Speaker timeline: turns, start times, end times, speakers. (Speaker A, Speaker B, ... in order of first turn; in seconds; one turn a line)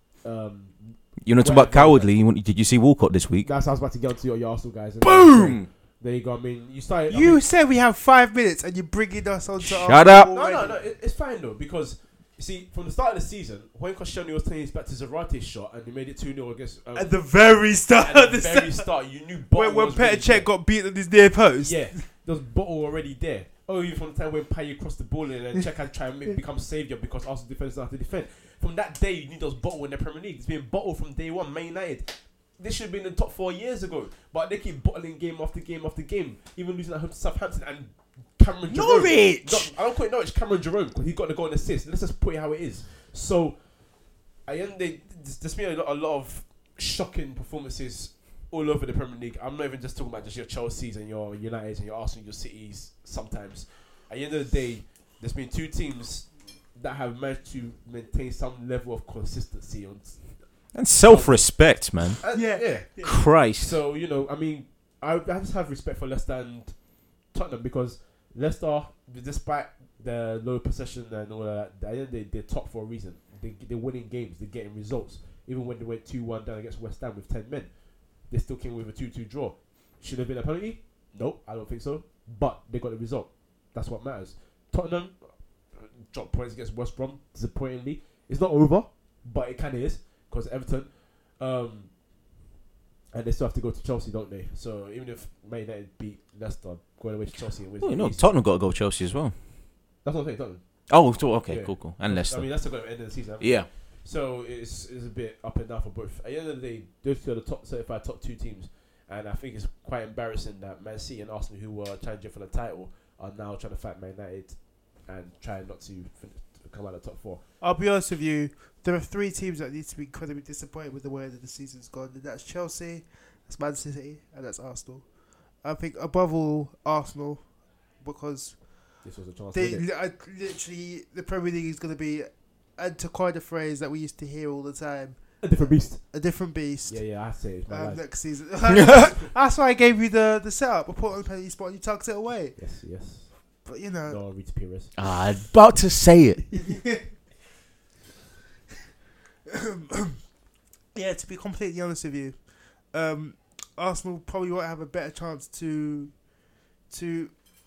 Speaker A: 0.2-2.1
Speaker B: 1.2-3.5
Speaker A: 3.4-7.4
Speaker B: 5.0-5.7
Speaker C: 7.1-10.8
Speaker B: 9.6-10.3
Speaker A: 10.3-17.1
Speaker C: 16.9-18.9
Speaker A: 18.0-20.5
Speaker C: 19.5-22.0
Speaker A: 21.6-43.6
Speaker C: 38.7-39.7
Speaker A: 44.4-60.4
Speaker B: 60.7-62.2
Speaker A: 61.0-61.6
Speaker A: 62.2-63.0
Speaker C: 62.3-63.2
Speaker B: 63.0-63.8
Speaker A: 63.6-66.8
Speaker A: 67.3-77.7
Speaker A: 78.3-91.9
Speaker A: 93.1-98.3
Speaker B: 97.8-99.3
Speaker A: 100.0-100.6
Speaker B: 100.9-102.7
Speaker A: 101.4-117.4
Speaker B: 103.4-103.7
Speaker C: 117.6-125.0
Speaker C: 125.6-127.4
Speaker C: 128.0-128.6
Speaker A: 129.0-129.8
Speaker C: 129.5-137.0
Speaker A: 135.4-136.0
Speaker A: 136.9-138.0
Speaker C: 137.7-142.6
Speaker B: 138.7-139.0
Speaker A: 142.6-143.3
Speaker C: 143.6-144.2
Speaker A: 144.1-144.9
Speaker B: 144.9-146.4
Speaker C: 146.5-147.1
Speaker C: 149.4-150.2
Speaker C: 150.9-152.4
Speaker C: 152.9-156.1
Speaker C: 156.9-157.3